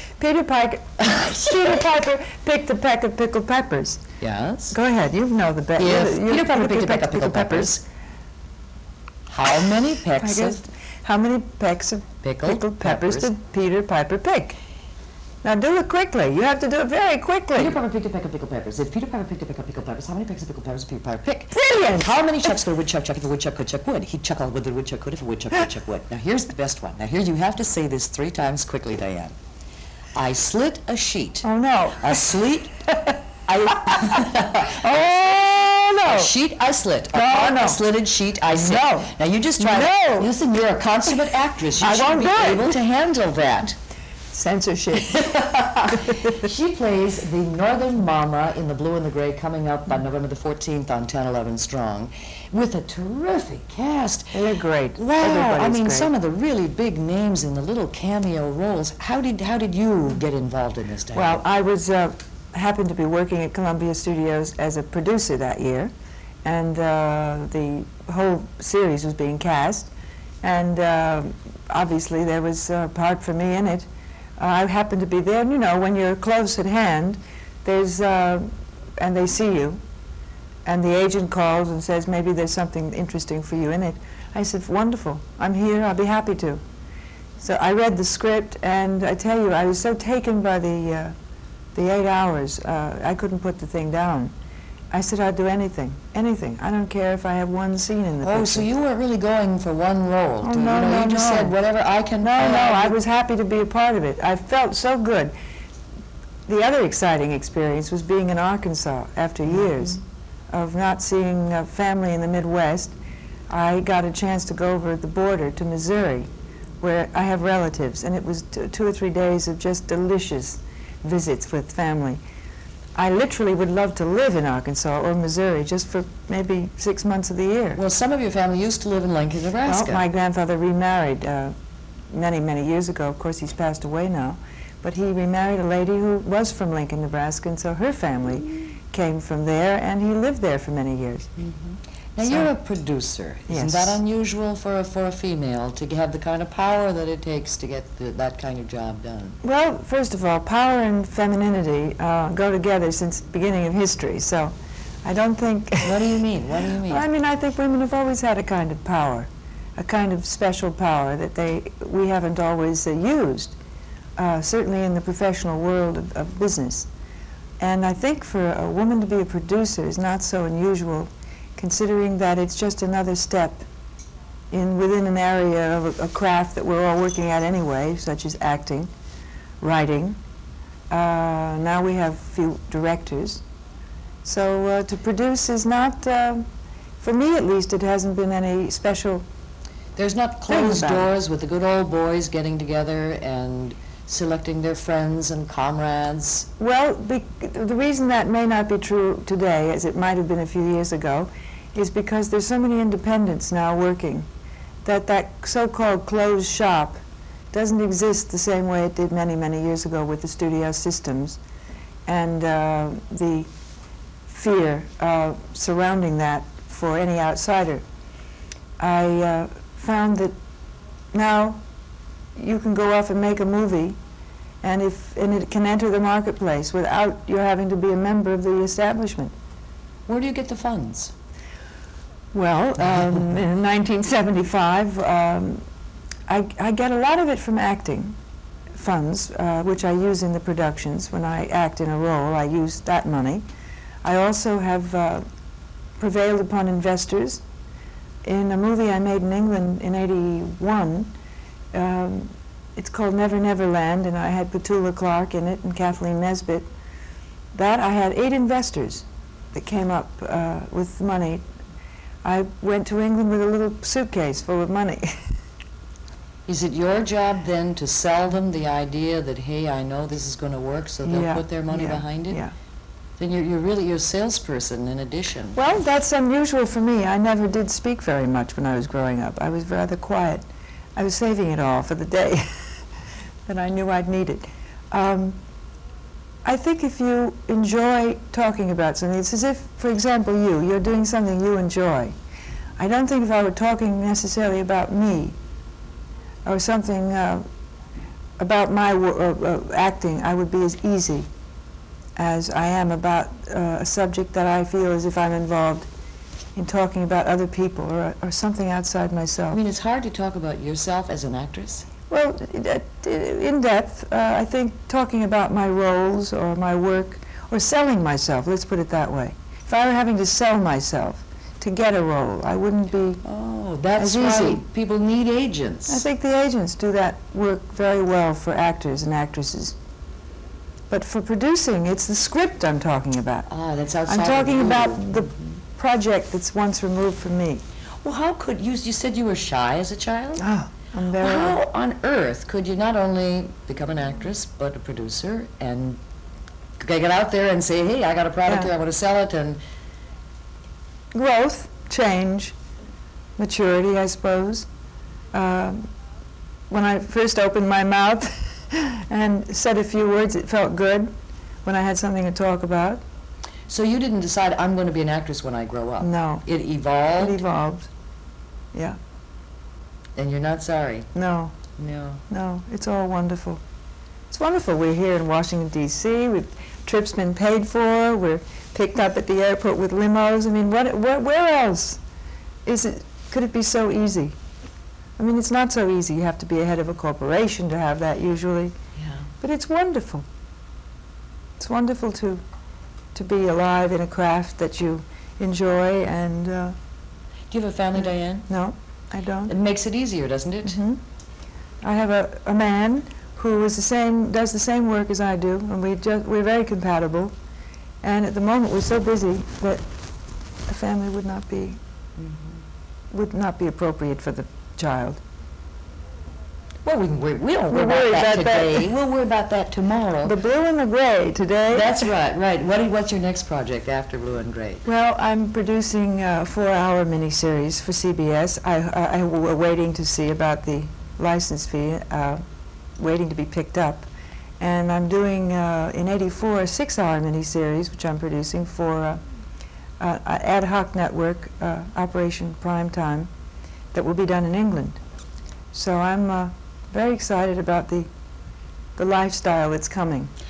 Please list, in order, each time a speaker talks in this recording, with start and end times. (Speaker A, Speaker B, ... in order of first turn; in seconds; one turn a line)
Speaker A: 0.2-4.0
Speaker B: 1.0-1.7
Speaker B: 4.2-4.8
Speaker A: 4.7-7.8
Speaker B: 5.8-7.8
Speaker B: 9.3-10.6
Speaker A: 10.2-14.6
Speaker B: 12.2-13.3
Speaker A: 15.4-17.8
Speaker B: 17.6-29.3
Speaker A: 21.5-22.2
Speaker B: 30.1-31.4
Speaker A: 31.4-32.3
Speaker B: 32.0-43.8
Speaker A: 33.9-36.3
Speaker A: 37.1-37.8
Speaker A: 38.5-40.3
Speaker A: 41.8-42.8
Speaker A: 44.3-46.5
Speaker B: 45.0-54.3
Speaker A: 54.3-56.1
Speaker B: 55.0-61.4
Speaker A: 61.1-65.9
Speaker A: 66.4-69.9
Speaker A: 70.4-73.9
Speaker A: 74.4-79.8
Speaker A: 80.7-86.6
Speaker A: 87.4-91.1
Speaker A: 91.7-94.3
Speaker A: 94.9-98.7
Speaker B: 98.2-103.0
Speaker A: 100.4-101.6
Speaker A: 102.2-105.3
Speaker A: 106.5-110.0
Speaker A: 110.5-112.9
Speaker A: 113.5-116.3
Speaker A: 116.8-122.2
Speaker A: 122.9-127.8
Speaker B: 127.8-130.0
Speaker A: 129.7-131.5
Speaker A: 132.1-141.3
Speaker B: 141.4-149.4
Speaker A: 142.2-142.5
Speaker A: 143.5-144.0
Speaker A: 149.4-154.5
Speaker A: 155.0-156.2
Speaker B: 155.8-157.0
Speaker A: 156.8-163.6
Speaker A: 164.2-166.9
Speaker A: 167.6-173.7
Speaker A: 174.5-178.9
Speaker A: 179.6-180.2
Speaker A: 180.9-183.4
Speaker A: 184.2-186.4
Speaker A: 187.0-189.2
Speaker B: 189.9-196.5
Speaker A: 190.5-191.1
Speaker A: 196.6-204.3
Speaker A: 204.8-207.0
Speaker A: 207.5-211.4
Speaker A: 212.1-213.5
Speaker A: 214.3-217.8
Speaker A: 218.8-220.3
Speaker A: 221.1-221.6
Speaker A: 222.3-224.0
Speaker A: 224.6-229.3
Speaker B: 230.1-231.1
Speaker A: 232.3-235.6
Speaker A: 236.3-238.2
Speaker A: 238.8-243.4
Speaker A: 244.0-245.2
Speaker A: 246.0-247.4
Speaker A: 248.2-251.1
Speaker A: 251.7-256.7
Speaker A: 257.5-261.4
Speaker A: 262.2-265.4
Speaker B: 266.5-272.4
Speaker A: 271.0-272.5
Speaker B: 273.2-275.6
Speaker A: 275.5-280.4
Speaker A: 281.0-282.7
Speaker A: 283.4-285.4
Speaker A: 286.4-292.1
Speaker A: 292.8-295.4
Speaker A: 296.4-297.4
Speaker A: 298.4-301.3
Speaker A: 302.2-305.9
Speaker A: 306.6-309.6
Speaker B: 309.5-311.9
Speaker A: 312.1-323.2
Speaker B: 323.2-326.1
Speaker A: 324.0-324.6
Speaker A: 325.9-329.8
Speaker A: 330.9-333.5
Speaker B: 333.5-335.3
Speaker A: 334.1-337.6
Speaker B: 338.0-340.4
Speaker A: 340.4-341.6
Speaker B: 341.2-346.0
Speaker B: 346.8-349.6
Speaker A: 348.5-348.7
Speaker A: 351.1-352.5
Speaker A: 353.4-354.7
Speaker A: 355.3-355.9
Speaker A: 356.7-361.1
Speaker A: 361.6-363.0
Speaker B: 363.7-367.4
Speaker A: 366.0-366.4
Speaker A: 367.2-367.9
Speaker B: 370.1-371.1
Speaker A: 371.1-371.6
Speaker B: 371.8-372.2
Speaker A: 372.3-373.6
Speaker A: 374.3-382.0
Speaker A: 382.6-384.3
Speaker A: 385.2-388.7
Speaker B: 389.0-389.3
Speaker A: 389.4-390.2
Speaker A: 391.6-392.4
Speaker A: 393.1-396.8
Speaker B: 397.5-398.5
Speaker A: 398.5-399.5
Speaker B: 399.5-400.8
Speaker A: 400.6-401.0
Speaker A: 401.8-407.3
Speaker A: 408.0-409.9
Speaker A: 410.7-411.8
Speaker B: 412.2-412.6
Speaker A: 413.1-415.2
Speaker B: 416.8-420.4
Speaker A: 417.7-418.9
Speaker A: 420.2-422.1
Speaker B: 421.7-424.8
Speaker A: 424.8-432.4
Speaker A: 433.0-434.1
Speaker A: 434.6-439.2
Speaker A: 440.0-443.3
Speaker A: 443.9-445.0
Speaker A: 445.7-448.1
Speaker A: 449.0-450.3